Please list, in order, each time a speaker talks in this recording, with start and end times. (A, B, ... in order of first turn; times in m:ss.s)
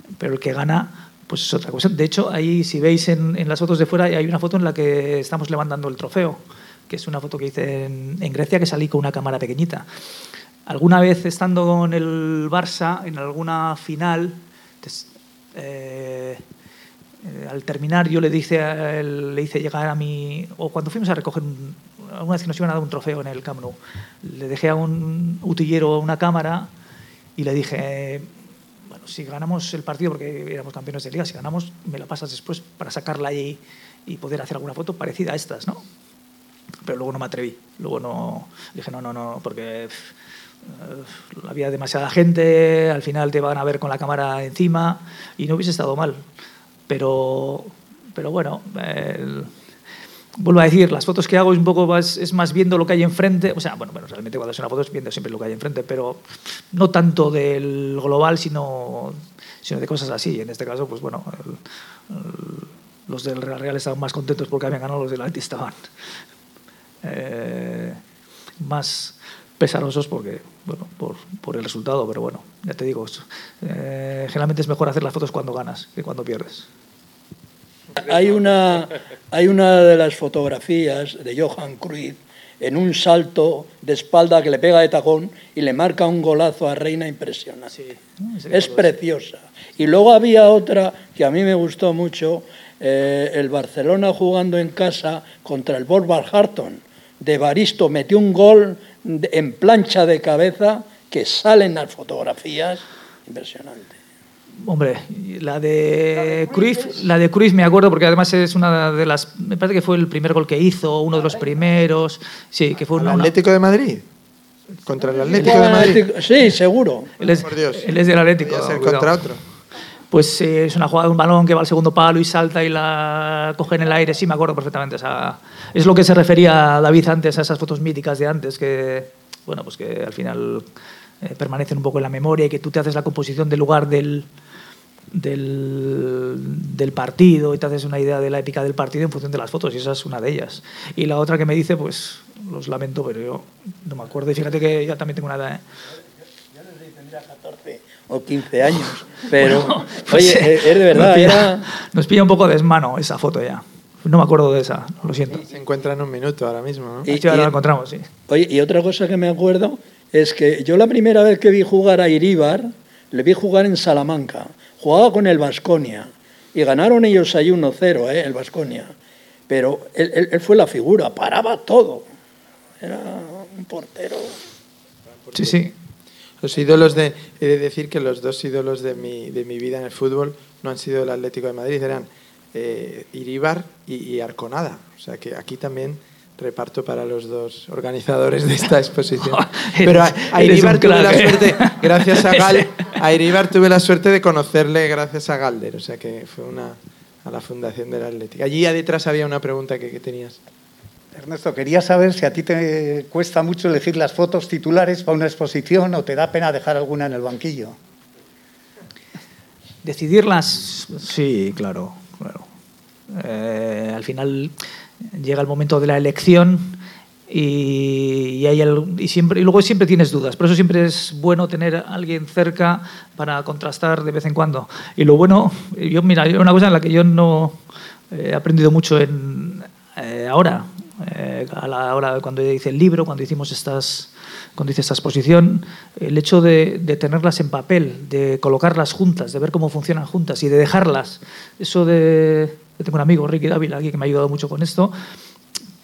0:00.2-0:09.8 A
0:10.6-0:16.4 A
0:17.2-0:26.7 A
0:27.4-0:28.3 A
0:28.9-0:35.8 A
0:36.8-0:40.1 A
0:40.6-0:46.2 A
0:46.9-0:49.5 A
0:50.4-1:05.8 A
1:07.0-1:08.0 A
1:08.6-1:16.7 A
1:18.0-1:27.8 B
1:27.7-1:28.9 A
1:28.5-1:43.9 B
1:44.6-1:53.3 A
1:46.2-1:47.0 B
1:52.9-1:54.0 C
1:54.8-1:56.0 C
1:55.3-1:57.1 B
1:57.2-1:59.2 A
1:57.2-1:59.4 C
2:00.1-2:10.6 A
2:11.2-2:14.3 A
2:15.1-2:25.6 A
2:26.6-2:31.7 B
2:29.4-2:35.4 A
2:35.3-2:37.1 C
2:37.0-2:37.5 B
2:37.1-2:38.0 A
2:38.3-2:48.9 B
2:49.5-2:52.0 B
2:52.8-2:54.4 B
2:55.2-2:55.6 C
2:55.3-2:55.7 A
2:56.4-3:20.4 C
3:09.2-3:12.6 A
3:21.1-3:27.8 D
3:29.8-3:32.5 A
3:33.1-3:34.5 A
3:35.1-3:47.6 A
3:48.1-4:05.0 A